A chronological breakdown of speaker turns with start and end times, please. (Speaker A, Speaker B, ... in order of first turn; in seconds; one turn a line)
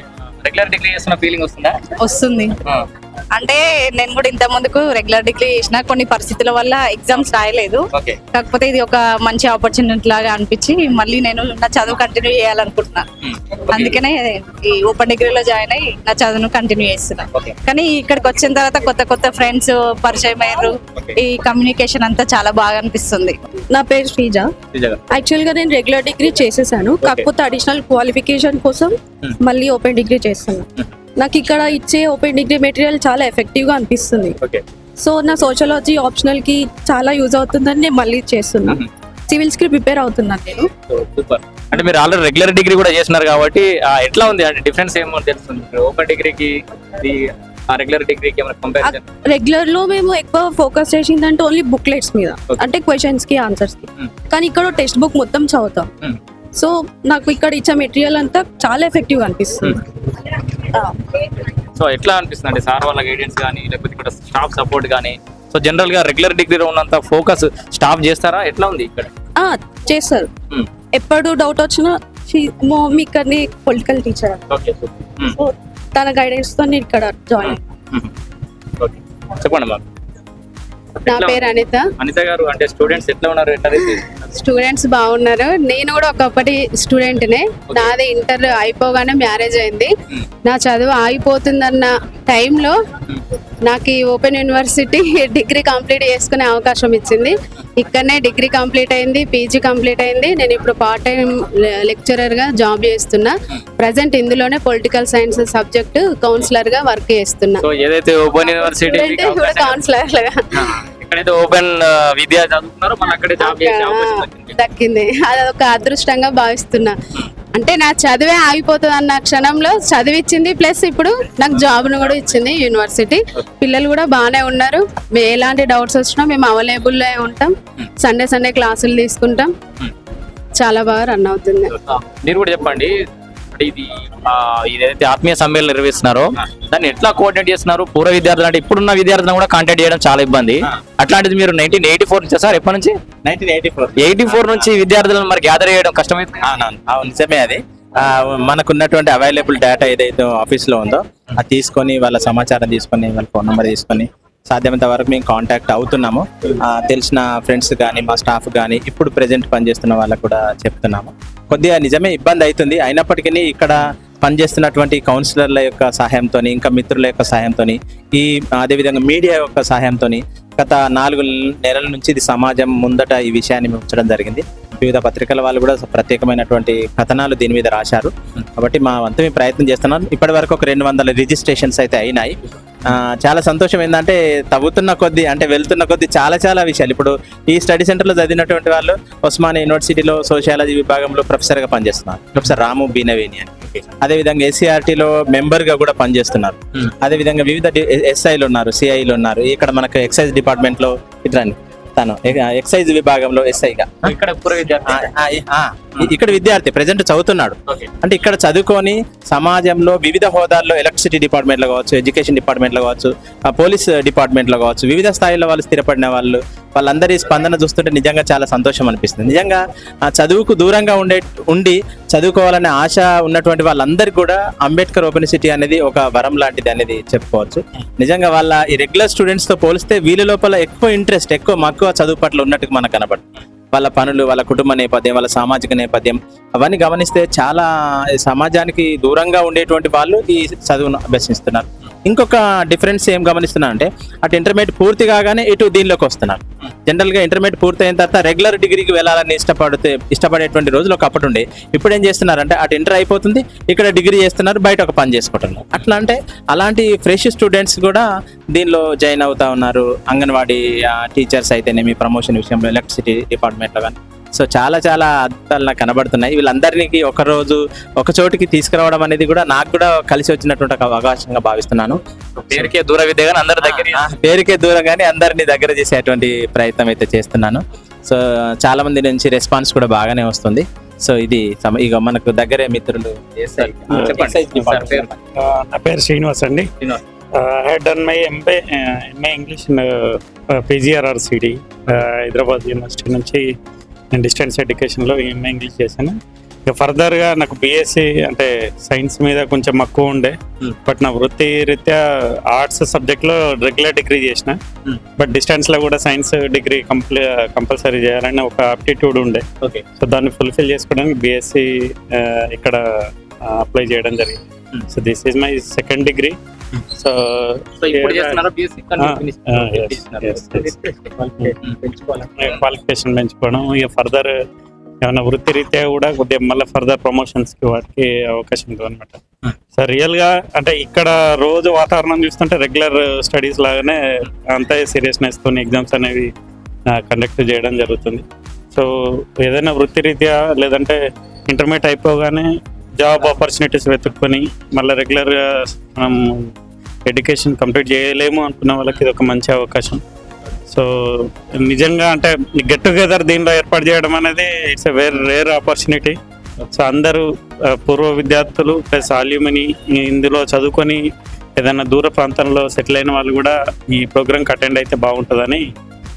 Speaker A: 0.4-1.8
Speaker B: 2.0-2.5
Speaker B: 3.3-13.1
Speaker A: 7.9-8.2
Speaker A: 13.2-14.0
Speaker B: 13.7-23.4
Speaker C: 23.7-24.5
Speaker A: 24.7-25.0
Speaker C: 25.1-30.6
Speaker A: 27.0-27.3
Speaker C: 31.2-34.3
Speaker C: 35.0-40.7
Speaker A: 40.9-49.0
Speaker C: 48.8-55.9
Speaker C: 56.6-59.8
Speaker A: 61.8-69.1
Speaker C: 69.4-70.3
Speaker C: 70.9-74.4
Speaker A: 74.5-75.3
Speaker C: 75.4-77.5
Speaker A: 77.4-78.1
Speaker A: 78.8-79.8
Speaker A: 81.0-81.4
Speaker D: 81.1-81.8
Speaker A: 82.0-84.1
Speaker D: 84.4-89.9
Speaker D: 90.4-92.8
Speaker D: 93.7-107.6
Speaker A: 107.6-109.8
Speaker D: 108.4-110.4
Speaker A: 110.5-114.5
Speaker D: 113.4-116.9
Speaker D: 117.5-129.5
Speaker D: 130.6-131.7
Speaker A: 131.8-132.9
Speaker A: 133.5-142.9
Speaker E: 143.2-144.7
Speaker A: 144.0-146.5
Speaker E: 146.6-204.1
Speaker A: 204.0-205.1
Speaker E: 204.9-272.0
Speaker A: 272.4-274.1
Speaker E: 273.6-285.0
Speaker A: 283.6-285.1
Speaker F: 283.9-284.9
Speaker F: 285.4-286.7
Speaker F: 287.4-293.4
Speaker F: 294.1-302.0
Speaker F: 302.5-304.6
Speaker F: 305.2-309.4
Speaker F: 310.0-312.8
Speaker F: 313.5-314.4
Speaker F: 314.9-318.4
Speaker A: 317.8-322.6
Speaker F: 319.0-320.8
Speaker F: 322.4-324.3
Speaker F: 325.0-329.2
Speaker F: 329.8-336.3
Speaker F: 336.9-338.9
Speaker F: 339.4-345.4
Speaker F: 346.0-346.5
Speaker F: 347.1-350.0
Speaker F: 350.7-356.2
Speaker F: 356.7-357.2
Speaker F: 357.8-361.0
Speaker F: 361.6-365.6